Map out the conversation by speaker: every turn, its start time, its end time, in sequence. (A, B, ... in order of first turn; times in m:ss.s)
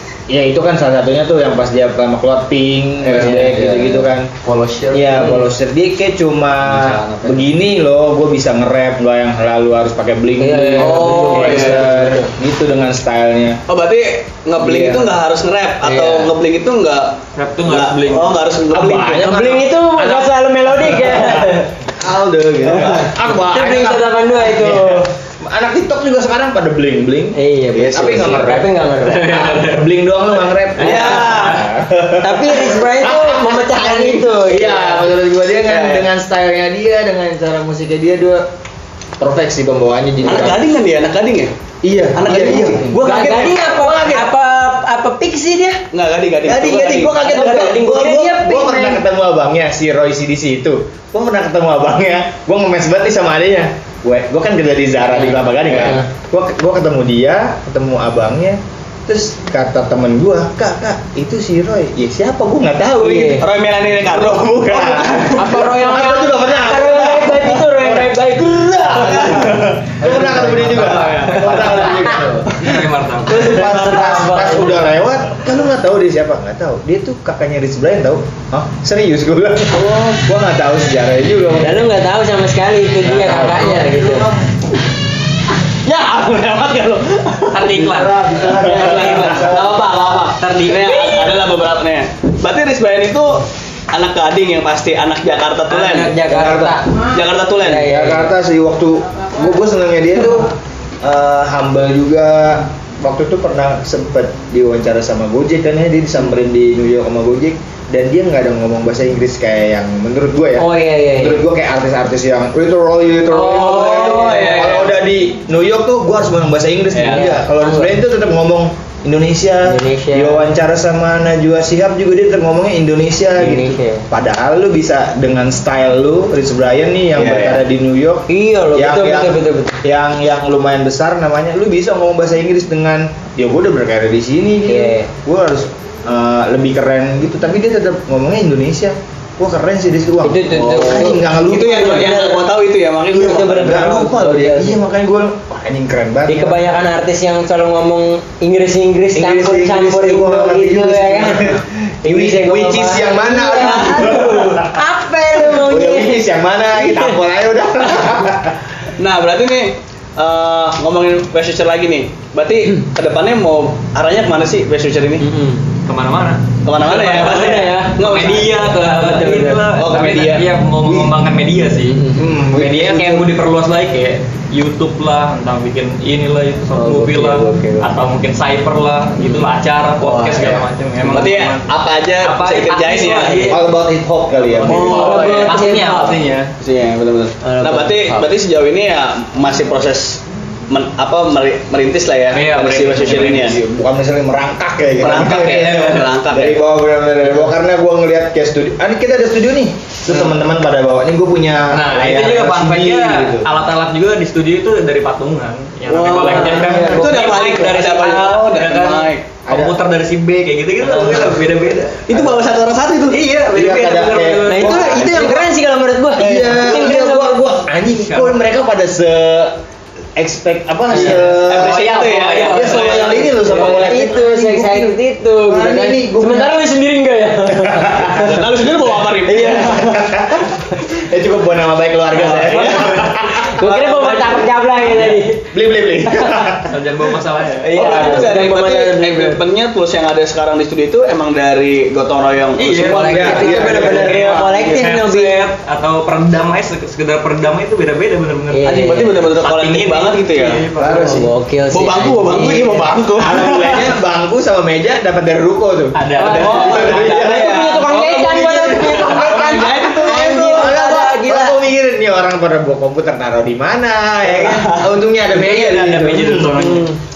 0:00.3-0:04.3 A
0:03.1-0:03.9 B
0:04.4-0:05.3 B
0:04.9-0:13.6 A
0:06.6-0:07.4 B
0:10.4-0:12.2 C
0:10.8-0:11.9 D
0:11.2-0:12.2 B
0:13.7-0:19.3 D
0:14.7-0:15.0 C
0:15.8-0:16.3 C
0:17.4-0:18.4 E
0:18.7-0:28.7 A
0:19.2-0:21.7 C
0:22.7-0:23.0 D
0:23.5-0:25.0 C
0:27.4-0:29.6 C
0:27.8-0:28.4 D
0:29.0-0:29.9 E
0:29.3-0:38.5 A
0:30.8-0:31.3 C
0:30.8-0:31.7 D
0:32.2-0:35.1 C
0:35.7-0:36.1 D
0:39.2-0:40.6 A
0:40.2-0:41.5 D
0:41.8-0:44.3 A
0:42.1-0:43.9 D
0:42.9-0:45.8 C
0:45.9-0:47.6 D
0:46.4-1:03.4 A
0:47.2-0:49.0 C
0:55.1-0:56.1 C
1:03.0-1:03.4 C
1:03.4-1:05.7 D
1:04.0-1:12.6 A
1:05.3-1:09.5 C
1:08.9-1:11.8 D
1:10.1-1:12.5 C
1:12.5-1:13.5 E
1:13.3-1:14.9 C
1:13.3-1:21.9 A
1:21.6-1:24.3 C
1:23.2-1:24.5 A
1:23.3-1:23.6 E
1:25.8-1:36.2 D
1:27.5-1:28.2 E
1:27.8-1:29.8 A
1:29.0-1:29.4 C
1:30.4-1:31.4 E
1:35.7-1:36.2 E
1:36.0-1:38.3 C
1:36.2-1:36.8 A
1:37.1-1:37.9 D
1:37.8-2:22.3 A
1:50.6-1:51.4 C
1:53.3-1:54.8 C
1:53.5-1:54.9 D
1:56.9-1:57.3 D
1:57.0-1:58.0 C
1:59.6-2:00.5 C
2:03.4-2:04.1 C
2:07.1-2:07.6 D
2:08.3-2:09.8 C
2:14.7-2:15.1 C
2:20.2-2:21.2 C
2:20.5-2:24.1 D
2:21.8-2:22.5 C
2:23.1-2:24.8 C
2:23.2-2:26.6 A
2:26.3-2:36.2 C
2:29.2-2:34.8 A
2:33.6-2:34.3 D
2:35.4-2:38.6 A
2:36.8-2:37.2 C
2:39.0-2:45.2 D
2:45.2-2:45.6 C
2:45.9-2:52.0 E
2:46.6-2:48.7 D
2:47.2-2:48.0 C
2:48.7-2:49.7 C
2:49.7-2:50.5 D
2:51.9-2:52.3 C
2:52.2-2:53.3 A
2:52.5-3:03.7 E
2:56.7-2:57.9 C
2:59.2-2:59.5 C
3:00.0-3:00.6 C
3:00.3-3:03.6 D
3:03.5-3:05.2 A
3:04.5-3:06.5 E
3:04.6-3:05.6 D
3:04.8-3:06.3 C
3:06.6-3:13.6 D
3:07.4-3:08.3 C
3:12.3-3:13.6 E
3:13.0-3:23.5 A
3:15.0-3:16.6 D
3:15.5-3:16.1 E
3:21.7-3:32.1 E
3:25.9-3:29.2 D
3:26.0-3:27.3 C
3:26.5-3:27.1 A
3:29.5-3:29.8 A
3:32.1-3:33.2 D
3:32.1-3:32.4 A
3:33.1-3:35.2 E
3:33.5-3:35.5 A
3:34.4-3:37.4 C
3:36.2-3:39.6 A
3:38.0-3:38.4 E
3:40.2-3:46.6 A
3:40.9-3:41.2 C
3:40.9-3:43.3 E
3:41.3-3:43.8 D
3:43.4-3:48.4 C
3:47.5-3:48.3 A
3:48.2-3:49.9 D
3:49.3-3:50.0 C
3:49.3-3:53.5 A
3:52.2-3:54.5 D
3:52.5-3:53.0 E
3:53.4-3:55.5 C
3:55.5-3:56.8 A
3:56.6-3:58.3 E
3:57.6-3:59.4 C
3:57.7-4:04.4 D
4:02.6-4:11.2 E
4:03.0-4:04.5 A
4:03.2-4:05.4 C
4:08.5-4:09.2 C
4:08.6-4:10.6 D
4:10.8-4:11.3 A
4:10.9-4:12.9 C
4:11.7-4:13.9 D
4:13.2-4:17.7 A
4:16.0-4:17.1 E
4:16.2-4:21.6 C
4:16.2-4:20.9 D
4:18.3-4:26.6 A
4:24.3-4:24.9 D
4:25.3-4:26.9 E
4:26.5-4:27.0 C